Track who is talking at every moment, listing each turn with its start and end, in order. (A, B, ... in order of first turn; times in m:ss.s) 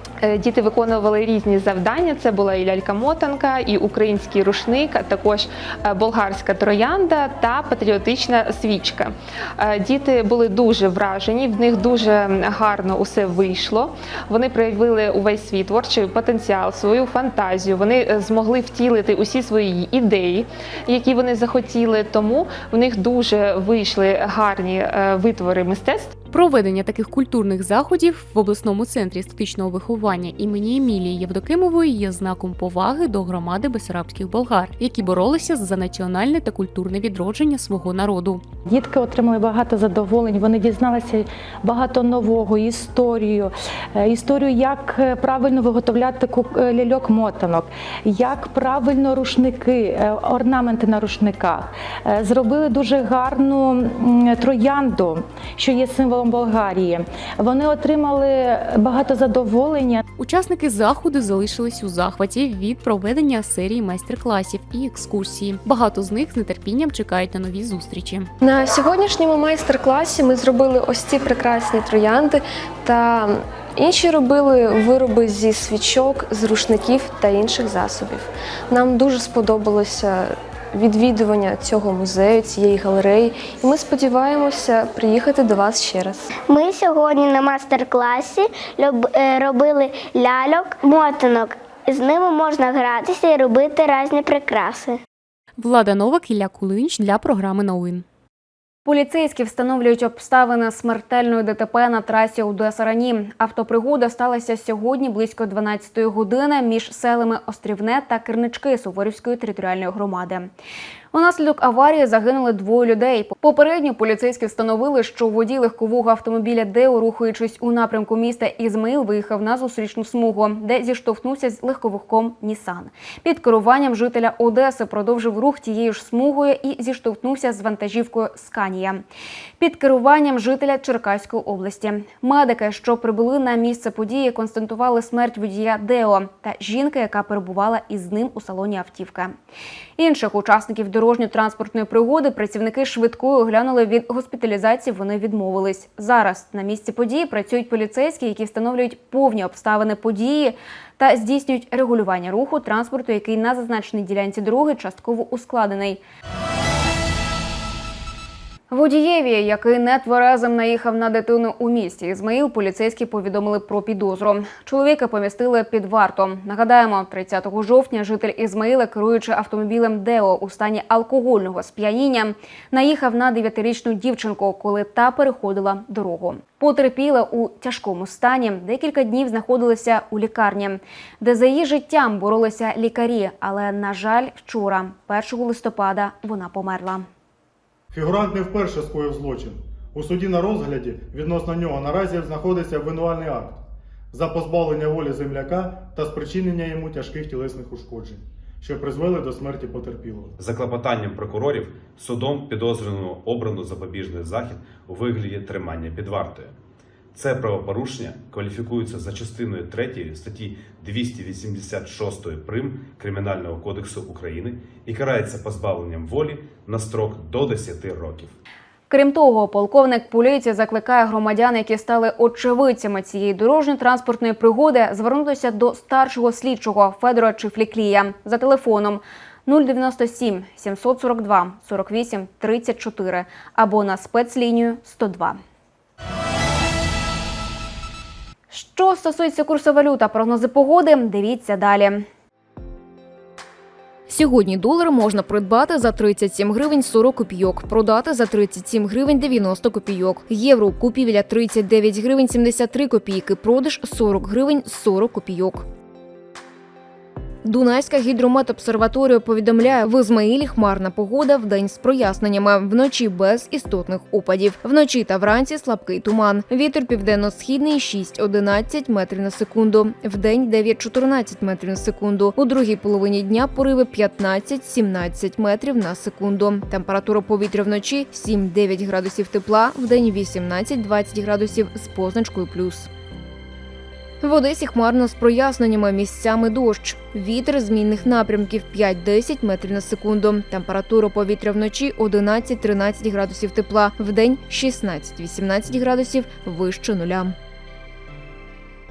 0:00.2-0:26.1 A
0:26.3-0:38.4 B
0:38.7-1:00.0 C
1:00.2-1:08.3 B
1:08.4-1:26.3 D
1:26.4-1:35.0 E
1:35.6-1:38.0 B
1:38.8-1:50.5 F
1:51.1-2:09.0 F
2:09.6-2:19.3 F
2:20.0-2:36.0 F
2:38.7-3:07.0 F
3:07.9-3:13.6 G
3:14.1-3:20.3 G
3:20.4-3:26.5 H
3:27.1-3:38.3 H
3:38.9-3:55.4 F
3:58.5-4:02.0 F
4:04.1-4:15.6 I
4:17.4-4:42.9 I
4:44.2-4:57.3 I